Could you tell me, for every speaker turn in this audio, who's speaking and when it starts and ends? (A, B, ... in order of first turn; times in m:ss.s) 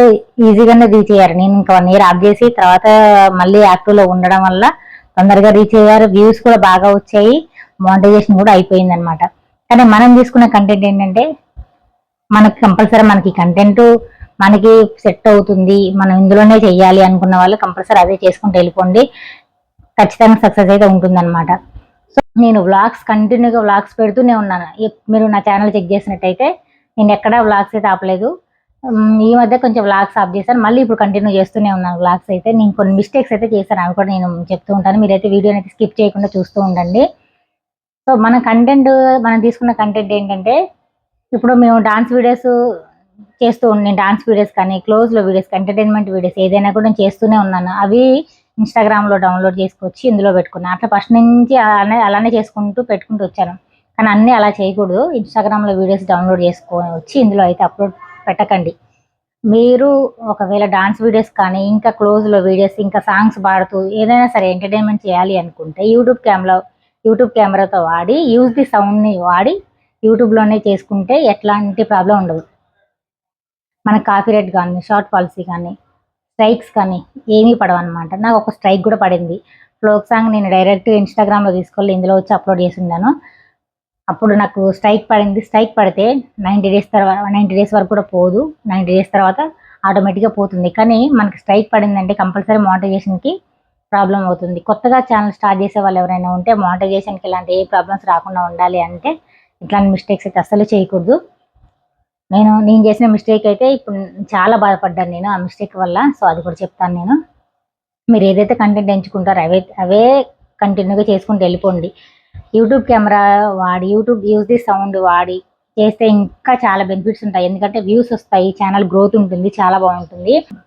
0:00.4-0:11.2 A
0:12.4-0:13.8 A
0:14.4-0:19.0 A
0:20.0-0:21.5 A
0:22.4-0:26.5 A
0:27.0-0:28.3 A
0:29.2-0:37.0 A
0:38.1-0:40.6 A
0:41.4-0:42.5 A
0:43.4-0:48.0 A
0:48.6-0:58.7 A
0:59.5-1:09.5 A
1:10.0-1:12.4 A
1:13.9-1:15.7 A
1:16.4-1:23.1 A
1:24.1-1:33.3 A
1:33.9-1:39.1 A
1:39.6-1:41.2 A
1:42.3-1:47.2 A
1:48.1-1:50.1 A
1:50.6-1:51.9 A
1:52.6-2:00.4 A